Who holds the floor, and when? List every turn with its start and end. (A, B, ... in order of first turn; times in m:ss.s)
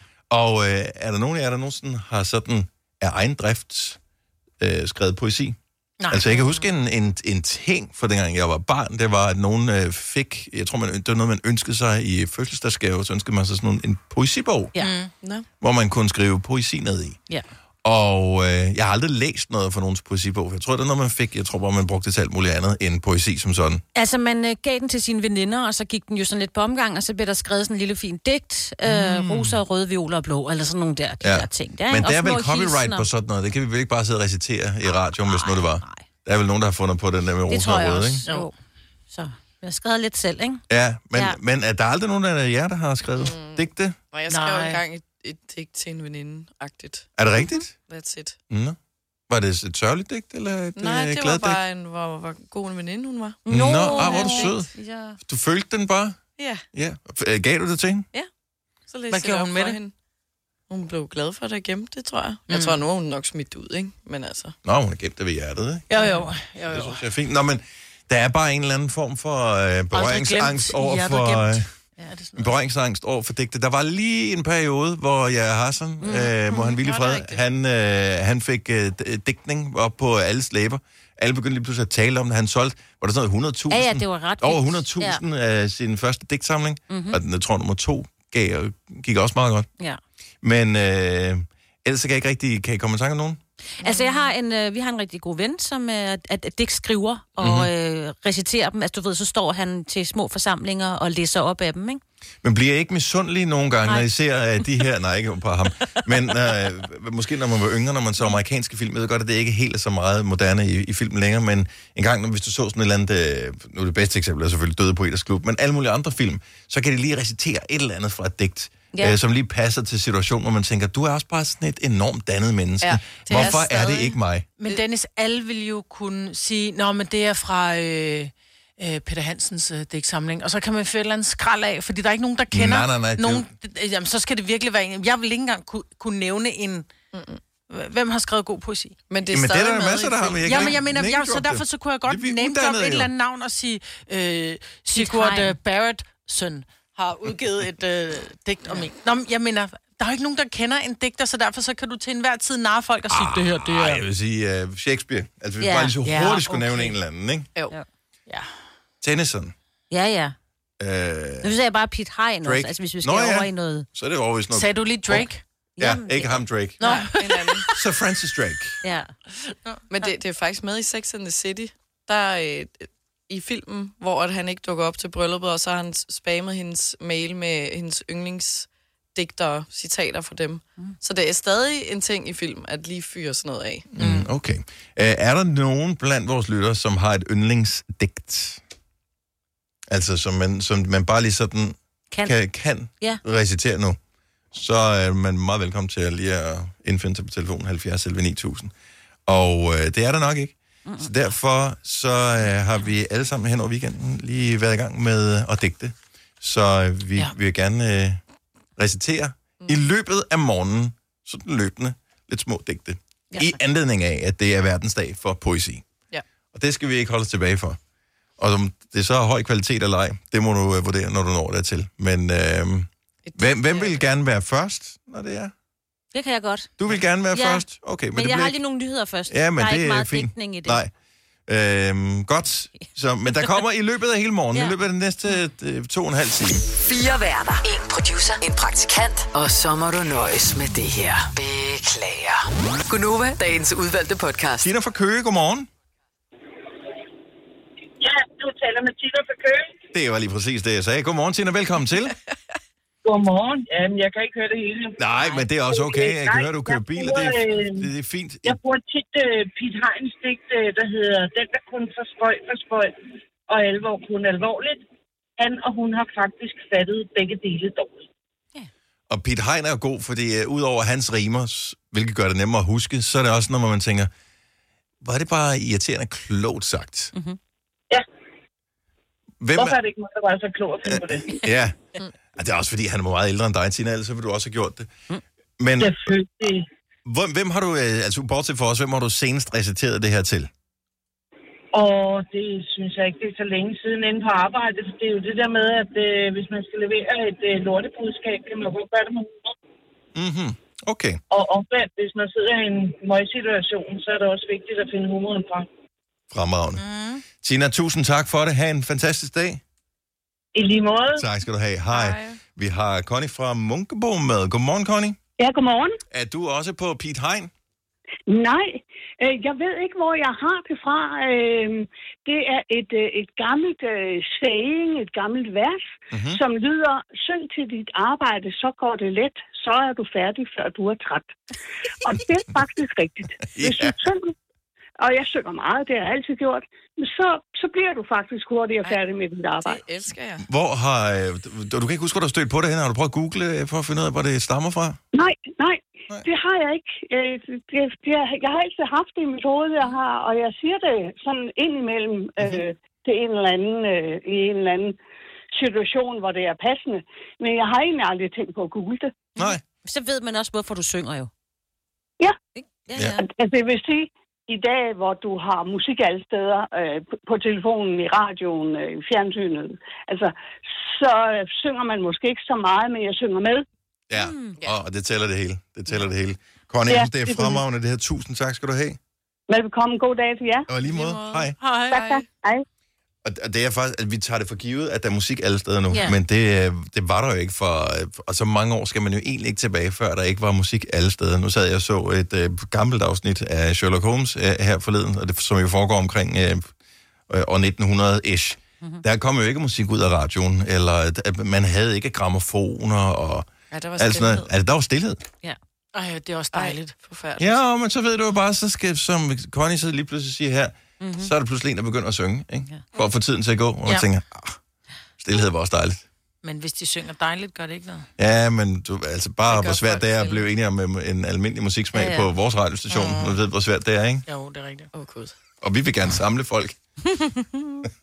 0:00.3-0:04.0 A
0:04.6-0:05.6 A
0:06.0-0:06.7 B
0:06.1-0:14.8 A
0:14.8-0:15.1 B
0:15.2-0:15.5 C
0:15.6-0:17.2 A
0:17.8-0:23.8 A
0:24.0-0:33.1 D
0:28.8-0:29.6 A
0:31.2-0:38.2 A
0:35.2-0:36.0 D
0:37.5-0:38.5 D
0:38.2-0:38.5 B
0:39.1-0:40.6 D
0:40.7-0:44.0 A
0:43.2-0:47.2 C
0:44.3-0:44.8 B
0:47.2-0:47.7 A
0:47.8-0:48.4 C
0:48.5-0:48.8 A
0:49.3-0:51.6 A
0:50.8-0:53.4 C
0:53.5-0:55.2 D
0:53.5-0:54.7 A
0:54.0-0:54.4 B
0:55.2-0:56.2 A
0:56.4-0:56.6 C
0:56.7-0:58.1 A
0:58.9-0:59.9 C
0:59.1-0:59.8 B
1:00.7-1:04.6 C
1:02.5-1:02.8 B
1:04.6-1:06.1 A
1:05.9-1:07.0 B
1:06.7-1:11.7 A
1:09.9-1:12.6 B
1:12.4-1:29.7 A
1:16.0-1:16.7 D
1:16.8-1:17.4 C
1:23.7-1:25.2 D
1:26.9-1:27.2 D
1:30.4-1:33.4 A
1:33.8-1:42.0 D
1:37.4-1:37.7 A
1:42.4-2:04.5 A
1:58.9-1:59.2 D
2:02.8-2:04.1 C
2:04.6-2:16.9 B
2:12.5-2:13.5 A
2:17.1-2:17.4 C
2:17.7-2:19.0 B
2:19.1-2:20.8 C
2:19.3-2:23.1 A
2:20.4-2:34.1 B
2:24.9-2:25.6 D
2:33.1-2:37.5 A
2:35.6-2:36.0 D
2:36.0-2:37.0 B
2:39.0-2:39.5 A
2:39.9-2:40.4 D
2:40.8-2:41.6 A
2:41.4-2:43.9 D
2:42.4-2:46.8 A
2:44.5-2:45.4 B
2:45.8-2:47.1 D
2:46.8-2:47.7 B
2:46.8-2:47.6 C
2:47.7-2:48.8 A
2:48.8-2:49.1 D
2:49.6-2:50.1 B
2:49.9-3:03.9 C
3:03.9-3:08.6 A
3:09.9-3:14.0 A
3:14.5-3:18.7 A
3:19.3-3:28.2 A
3:28.8-3:35.8 A
3:33.3-3:33.6 D
3:36.5-3:37.8 A
3:38.4-3:45.5 A
3:43.2-3:44.0 C
3:46.1-3:46.7 D
3:46.8-3:48.6 A
3:47.3-3:50.8 D
3:49.3-3:50.9 A
3:51.5-3:56.7 A
3:56.8-4:04.7 E
4:04.6-4:05.7 A
4:08.0-4:09.8 F
4:09.9-4:12.2 A
4:13.0-4:15.0 F
4:15.0-4:18.6 A
4:15.7-4:17.9 F
4:18.4-4:23.0 F
4:23.5-4:24.8 F
4:25.4-4:28.1 F
4:29.1-4:34.1 A
4:35.0-4:37.1 A
4:39.4-4:39.8 A
4:39.6-4:41.4 F
4:40.9-4:41.8 A
4:42.4-4:44.9 A
4:45.6-4:46.0 A
4:45.8-4:46.7 F
4:47.0-4:50.5 A
4:51.7-4:59.5 F
5:00.2-5:01.2 A
5:01.3-5:05.7 F
5:06.3-5:06.8 A
5:06.8-5:07.2 B
5:07.4-5:09.6 A
5:10.6-5:11.2 F
5:11.2-5:15.2 A
5:11.9-5:12.4 C
5:15.4-5:16.0 G
5:16.1-5:17.5 A
5:18.3-5:31.4 G
5:26.1-5:26.4 A
5:32.0-5:34.3 G
5:33.5-5:34.0 A
5:35.0-5:39.8 G
5:39.6-5:40.5 C
5:40.4-5:45.0 A
5:45.1-5:55.0 G
5:55.6-5:59.2 G
5:59.4-6:01.3 D
6:02.6-6:03.2 D
6:02.9-6:03.2 A
6:03.2-6:13.6 G
6:14.1-6:19.0 A
6:14.2-6:14.6 D
6:16.9-6:17.6 G
6:19.5-6:20.7 G
6:20.7-6:21.6 A
6:20.8-6:22.3 C
6:21.6-6:22.0 B
6:21.9-6:22.6 G
6:23.2-6:36.7 A
6:25.9-6:26.2 D
6:37.3-6:45.2 A
6:43.7-6:44.5 C
6:45.9-6:47.0 B
6:46.5-6:47.6 C
6:47.4-6:54.6 A
6:51.0-6:51.3 D
6:55.2-6:56.0 A
6:56.4-6:58.1 B
6:58.2-7:04.2 A
6:59.5-7:00.5 C
7:02.0-7:02.3 D
7:02.9-7:03.4 B
7:04.3-7:04.9 B
7:04.9-7:05.4 C
7:05.6-7:06.8 A